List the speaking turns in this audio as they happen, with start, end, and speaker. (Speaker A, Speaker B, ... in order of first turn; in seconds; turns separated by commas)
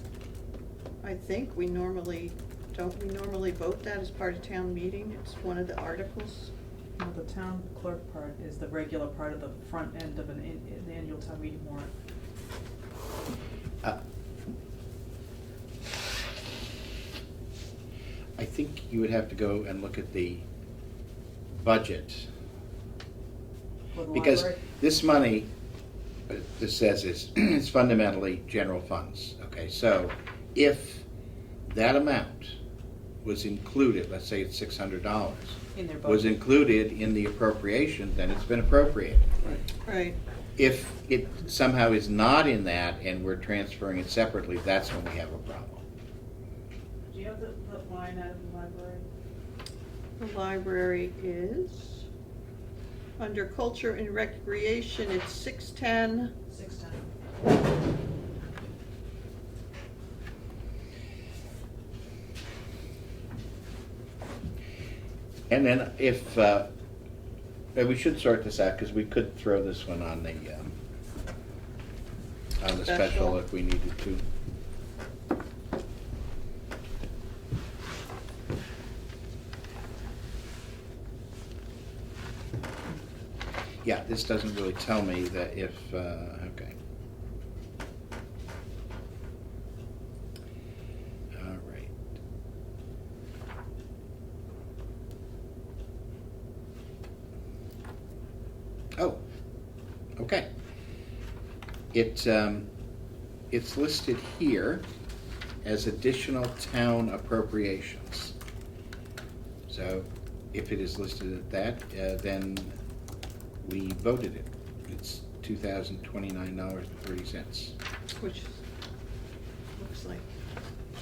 Speaker A: 1.0-6.5, Speaker B: 7.0-11.9, Speaker C: 18.4-20.4, Speaker C: 21.5-22.3, Speaker B: 23.9-24.6, Speaker C: 24.1-25.5, Speaker C: 26.3-31.1, Speaker C: 31.7-32.6, Speaker C: 33.2-39.3, Speaker B: 35.8-36.4, Speaker A: 39.8-40.2, Speaker C: 40.6-45.8, Speaker B: 47.1-49.1, Speaker A: 50.2-52.1, Speaker A: 53.2-56.3, Speaker B: 56.5-57.0, Speaker C: 65.5-66.7, Speaker C: 67.8-70.7, Speaker C: 72.6-74.2, Speaker A: 72.8-73.3, Speaker C: 83.8-86.7, Speaker C: 91.3-92.0, Speaker C: 99.0-99.2, Speaker C: 100.2-100.5, Speaker C: 101.9-102.7, Speaker C: 103.5-104.8, Speaker C: 105.6-108.3, Speaker C: 109.7-112.7, Speaker C: 113.6-117.8, Speaker A: 118.2-118.5, Speaker A: 119.8-120.2